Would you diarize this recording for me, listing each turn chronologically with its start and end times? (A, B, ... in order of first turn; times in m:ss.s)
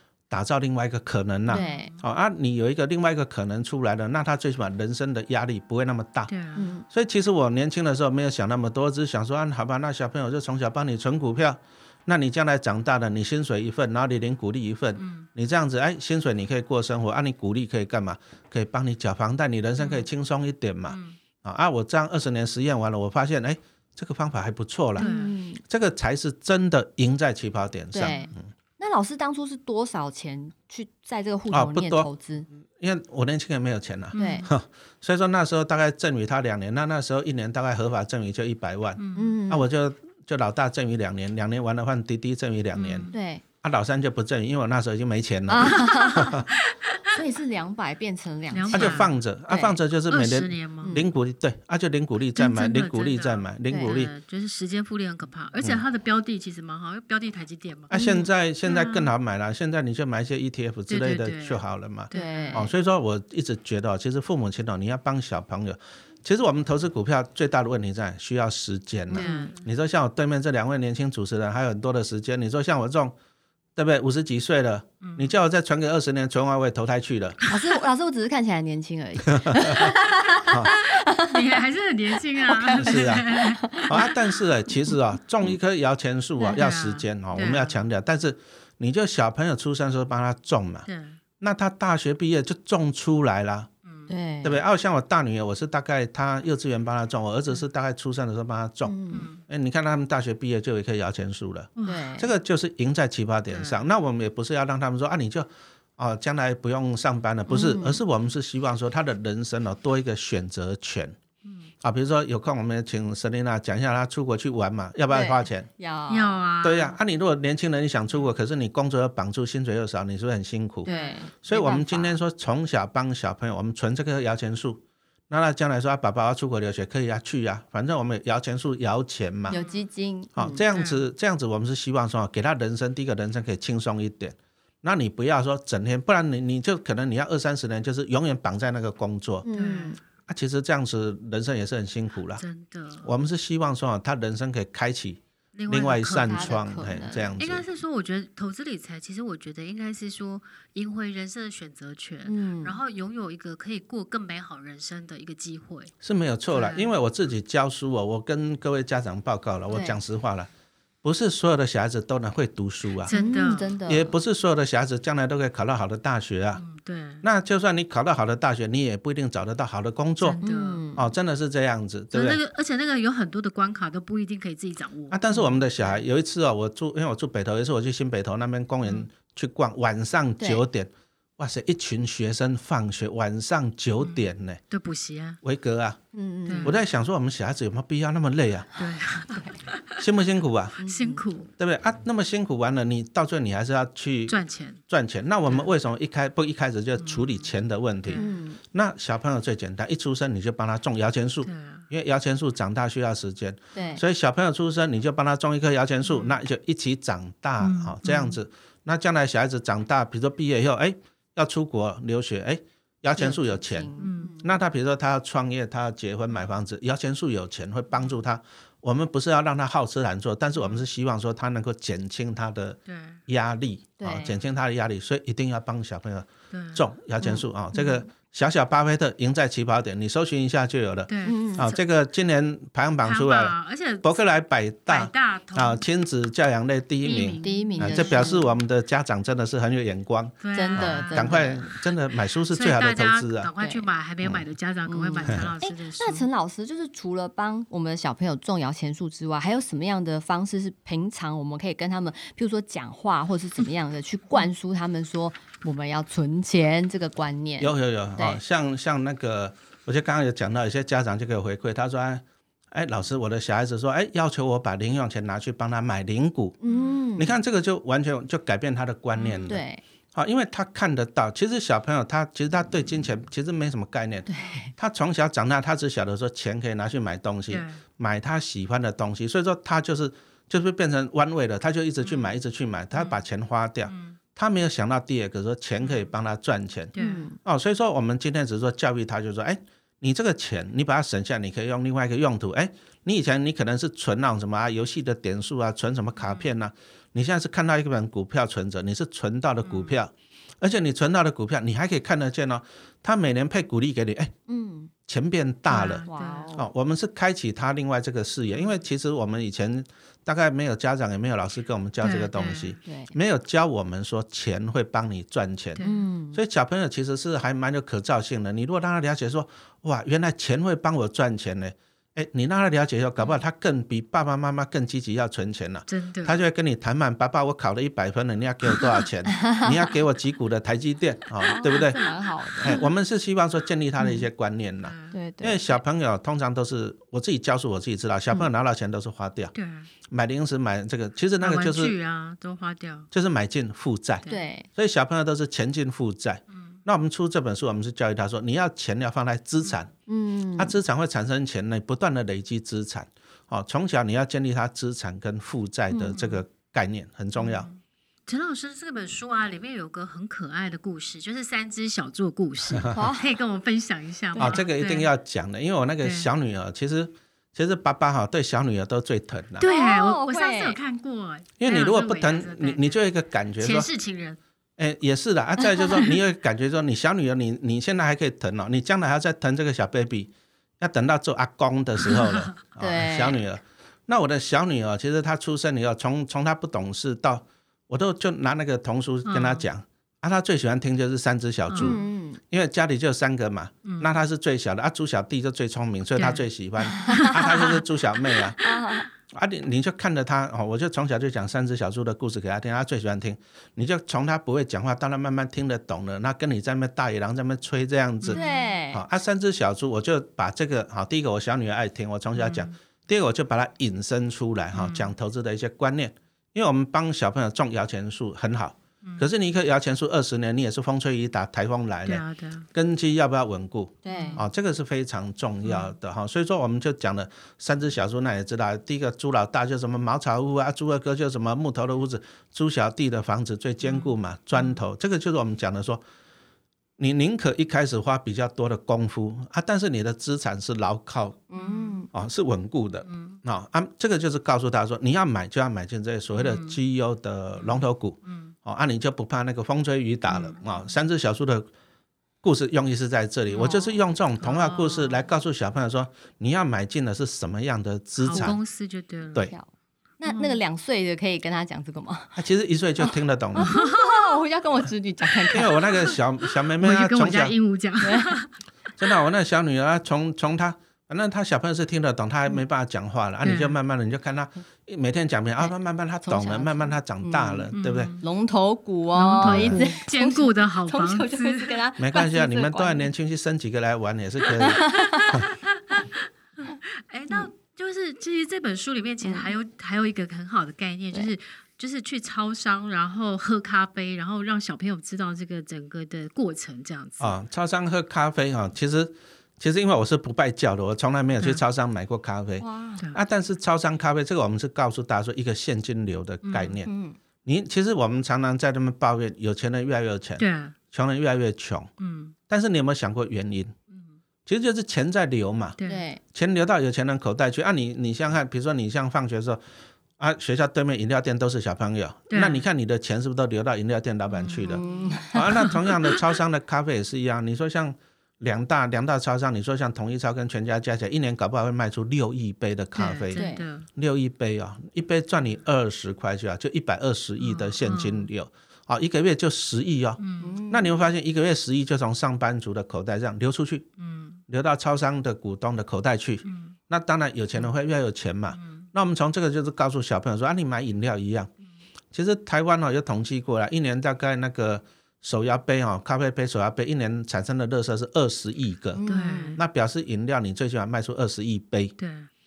0:00.3-0:06.3 A
0:01.5-0:01.9 B
0:01.5-0:02.0 C
0:06.3-0:06.7 C
0:06.6-0:06.8 B
0:06.9-0:25.1 A
0:15.0-0:15.3 C
0:19.8-0:20.1 C
0:20.9-0:21.2 C
0:25.0-0:25.3 C
0:25.0-0:25.6 B
0:25.6-0:28.4 A
0:27.9-0:32.5 B
0:28.0-0:28.3 C
0:31.5-0:43.1 A
0:34.1-0:34.5 C
0:34.2-0:34.5 B
0:39.0-0:39.4 C
0:39.1-0:39.7 B
0:42.7-0:43.1 C
0:43.1-0:43.4 B
0:43.6-0:46.5 A
0:45.5-0:46.3 B
0:45.7-0:47.1 C
0:47.1-0:49.7 B
0:48.5-0:49.1 C
0:48.7-0:54.1 A
0:50.1-0:51.0 C
0:50.8-0:51.1 B
0:52.3-0:57.9 C
0:53.7-0:54.0 B
0:57.9-1:13.2 A
0:57.9-0:58.3 B
0:58.6-0:59.1 C
1:00.9-1:02.7 C
1:02.1-1:02.7 B
1:09.1-1:09.5 B
1:09.1-1:09.6 C
1:13.8-1:17.4 A
1:15.0-1:15.3 C
1:17.5-1:21.6 B
1:19.2-1:20.7 A
1:19.8-1:24.0 C
1:22.4-1:24.1 B
1:22.8-1:23.3 A
1:23.9-1:30.9 A
1:26.4-1:27.8 C
1:30.9-1:31.2 C
1:31.4-1:33.7 A
1:33.8-1:34.1 C
1:34.1-1:34.6 B
1:34.4-1:51.2 A
1:38.8-1:39.3 B
1:39.1-1:39.4 C
1:41.8-1:42.1 C
1:41.8-1:42.3 B
1:43.5-1:43.8 C
1:47.5-1:48.0 B
1:51.4-1:51.7 C
1:51.8-1:55.7 A
1:55.1-1:56.4 B
1:56.1-1:57.0 C
1:56.6-2:00.9 A
2:00.8-2:02.2 B
2:00.8-2:01.2 C
2:01.4-2:09.6 A
2:09.5-2:10.6 B
2:09.5-2:09.8 C
2:10.4-2:19.4 A
2:10.7-2:11.0 C
2:19.4-2:20.0 B
2:19.5-2:20.0 C
2:20.3-2:22.4 A
2:22.3-2:23.1 C
2:23.0-2:27.6 A
2:25.5-2:26.6 C
2:26.2-2:27.3 B
2:27.4-2:35.9 C
2:32.2-2:32.8 B
2:36.0-2:40.5 A
2:36.5-2:36.9 C
2:39.7-2:40.0 B
2:41.0-2:43.1 A
2:43.0-2:43.8 C
2:43.1-2:44.2 B
2:43.8-2:46.6 A
2:46.6-2:47.2 C
2:47.2-2:50.4 A
2:50.2-2:50.8 C
2:50.4-2:51.0 B
2:51.0-2:52.4 A
2:52.1-2:56.0 C
2:55.1-3:04.6 A
3:00.4-3:00.6 B
3:04.7-3:05.4 C
3:05.4-3:06.0 A
3:06.1-3:06.8 B
3:06.5-3:06.8 C
3:06.6-3:08.8 A
3:08.7-3:10.0 C
3:10.0-3:10.8 A
3:10.8-3:11.2 B
3:10.8-3:11.5 C
3:11.6-3:14.4 A
3:14.3-3:14.8 C
3:14.9-3:33.9 A
3:17.0-3:17.5 C
3:18.1-3:18.6 B
3:21.4-3:21.8 C
3:23.7-3:24.0 B
3:26.0-3:26.4 C
3:27.6-3:28.4 C
3:33.1-3:34.6 B
3:34.0-3:34.3 C
3:34.4-4:03.5 A
3:40.6-3:40.8 C
3:42.9-3:43.2 C
3:44.0-3:44.4 B
3:46.5-3:46.8 C
3:47.2-3:48.0 B
3:51.1-3:51.8 C
3:51.2-3:51.7 B
3:53.0-3:54.2 C
3:54.9-3:55.8 C
3:57.0-3:58.4 C
3:57.4-3:58.5 B
4:00.4-4:01.5 C
4:00.5-4:01.7 B
4:02.5-4:06.2 C
4:03.6-4:03.9 B
4:04.9-4:18.4 B
4:05.2-4:05.5 A
4:17.6-4:26.6 A
4:26.6-4:27.3 B
4:26.6-4:27.0 C
4:27.2-5:04.3 A
4:29.2-4:29.5 C
4:29.4-4:29.8 B
4:34.3-4:34.7 B
4:37.5-4:37.8 C
4:42.9-4:43.2 C
4:43.9-4:44.2 C
4:45.8-4:46.1 C
4:46.9-4:47.3 C
4:47.0-4:47.4 B
4:56.2-4:56.5 C
4:59.6-5:00.0 C
5:04.5-5:04.9 B
5:05.1-5:06.0 A
5:05.7-5:06.5 C
5:06.1-5:06.7 B
5:06.6-5:15.8 A
5:12.0-5:12.8 C
5:12.8-5:13.1 B
5:15.8-5:16.1 C
5:15.8-5:16.4 B
5:16.3-5:39.5 A
5:25.9-5:26.4 C
5:29.3-5:29.9 B
5:31.4-5:32.8 B
5:34.0-5:34.2 B
5:34.8-5:35.1 C
5:35.1-5:35.6 B
5:39.5-5:39.9 C
5:40.1-5:42.0 A
5:41.4-5:43.1 C
5:43.1-5:44.2 A
5:44.2-5:44.7 B
5:44.8-5:49.9 A
5:50.1-5:50.8 B
5:50.6-5:57.7 A
5:55.9-5:56.2 B
5:56.1-5:56.4 C
5:57.4-6:05.1 C
6:02.9-6:03.4 B
6:04.3-6:04.6 B
6:04.4-6:09.7 A
6:06.0-6:06.3 C
6:09.6-6:13.0 C
6:09.6-6:10.8 B
6:11.6-6:13.9 A
6:13.6-6:14.4 C
6:14.8-7:16.0 A
6:22.0-6:22.5 C
6:22.8-6:23.4 B
6:29.2-6:29.6 C
6:31.7-6:32.0 C
6:31.8-6:32.4 B
6:33.8-6:34.1 C
6:36.2-6:36.4 C
6:36.9-6:37.3 B
6:37.1-6:37.8 C
6:38.6-6:39.1 B
6:48.2-6:48.6 C
6:48.3-6:49.0 B
6:52.3-6:52.7 C
6:54.7-6:55.1 C
6:59.0-6:59.3 C
7:02.0-7:02.6 C
7:04.0-7:04.4 B
7:04.1-7:04.4 C
7:05.6-7:05.9 C
7:13.8-7:14.7 C
7:17.0-7:21.4 A
7:21.5-7:22.1 B
7:21.6-7:22.0 C
7:22.1-7:31.7 A
7:23.0-7:23.4 C
7:26.3-7:26.8 C
7:27.6-7:28.5 C
7:30.3-7:30.7 C
7:32.4-7:38.6 A
7:33.5-7:33.9 C
7:33.6-7:33.9 B
7:34.4-7:35.2 C
7:38.2-7:39.5 C
7:39.4-7:39.7 B
7:40.2-7:42.4 B
7:40.2-7:40.6 C
7:42.4-7:43.7 A
7:43.0-7:46.2 B
7:43.6-7:44.4 C
7:45.5-7:47.6 A
7:46.8-7:48.5 C
7:48.0-7:48.4 B
7:49.0-7:58.2 A
7:53.4-7:53.7 C
7:55.6-8:03.1 B
7:57.7-7:58.2 C
7:59.1-8:01.8 C
7:59.4-7:59.9 A
8:02.0-8:05.4 A
8:04.6-8:05.4 B
8:04.9-8:17.4 C
8:09.2-8:09.5 B
8:17.2-8:26.9 A
8:22.6-8:23.1 B
8:26.4-8:26.8 C
8:26.8-8:27.2 B
8:27.4-8:31.9 A
8:30.4-8:30.8 C
8:32.0-8:32.3 C
8:32.5-8:33.7 A
8:34.4-8:35.8 A
8:35.8-8:36.0 C
8:35.8-8:36.2 B
8:36.3-8:39.6 A
8:40.2-9:03.8 A
8:42.3-8:42.6 C
8:44.3-8:46.2 C
8:44.7-8:45.4 B
8:52.9-8:53.9 C
8:53.4-8:53.6 B
8:57.4-8:58.3 C
9:00.2-9:00.6 C
9:00.4-9:01.0 B
9:04.0-9:04.4 C
9:04.5-9:11.5 A
9:06.4-9:06.8 C
9:08.5-9:08.9 C
9:12.1-9:19.0 A
9:18.9-9:19.6 B
9:19.1-9:19.6 C
9:19.6-9:21.9 A
9:22.0-9:22.3 C